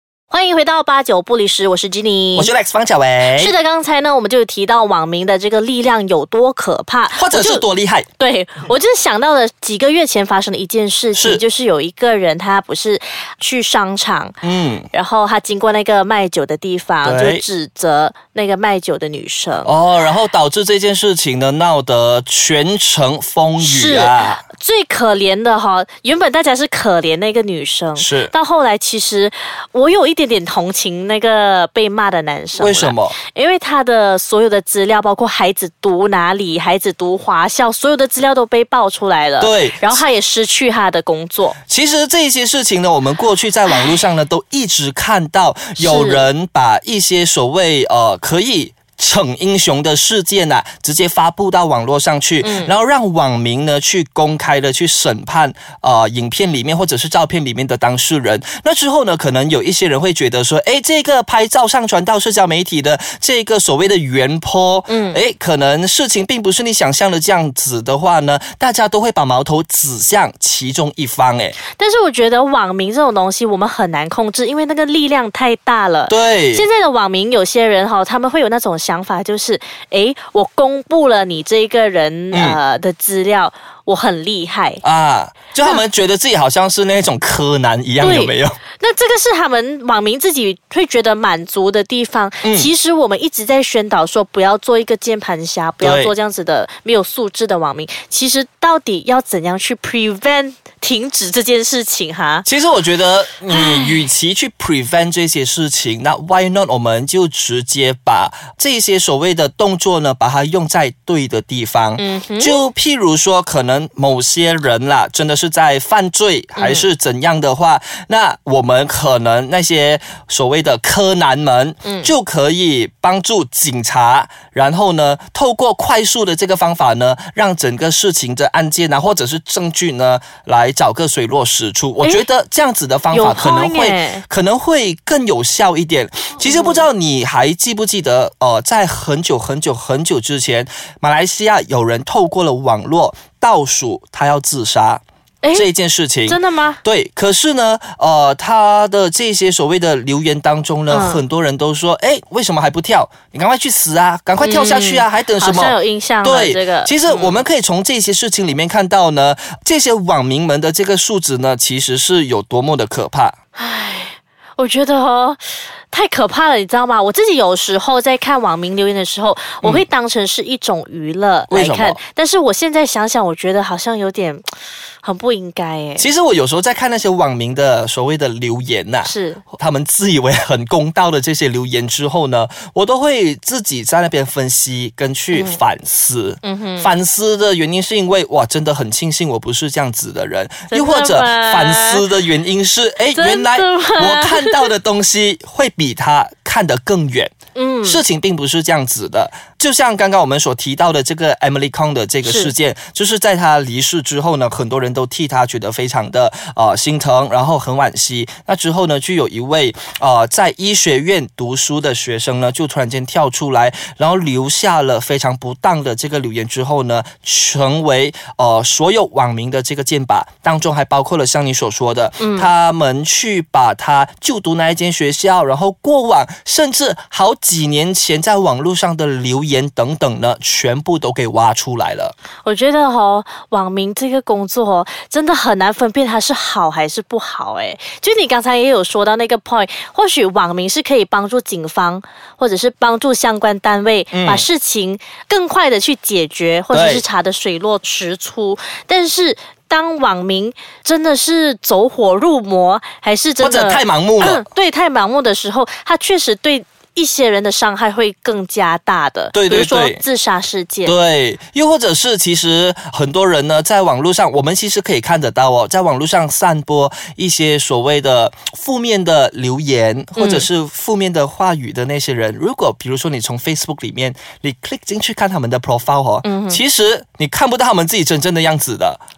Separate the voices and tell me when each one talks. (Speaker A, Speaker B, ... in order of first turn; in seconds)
Speaker A: 0.3-2.5, 3.3-7.6, 8.2-14.3, 14.9-19.7, 23.6-41.6, 45.8-46.3, 52.4-52.7, 64.9-65.2, 71.7-84.8, 88.0-102.5, 103.5-104.0, 112.0-112.6, 116.6-116.8, 121.8-122.1, 133.1-134.2, 136.4-136.8, 145.4-145.7, 146.2-146.8, 150.9-151.2, 154.4-157.4, 163.6-165.4, 165.9-174.4, 175.0-176.1, 179.0-179.4, 185.3-185.6, 186.4-186.9, 190.7-192.1, 193.1-194.7, 197.5-198.0, 202.2-202.5, 222.2-222.5, 232.4-260.9, 270.1-270.5, 276.2-276.6
Speaker B: 2.4-3.5, 7.1-8.1, 11.1-11.4, 14.4-14.9, 17.0-17.4, 19.6-24.4, 27.9-28.3, 32.6-33.1, 39.4-40.0, 41.7-71.5, 76.1-76.6, 82.3-82.6, 84.8-88.6, 92.4-92.7, 95.8-96.1, 102.5-145.0, 145.5-163.3, 171.5-172.0, 176.0-197.3, 197.8-232.1, 244.1-244.4, 246.7-247.0, 253.4-254.4, 259.3-260.0, 260.8-279.0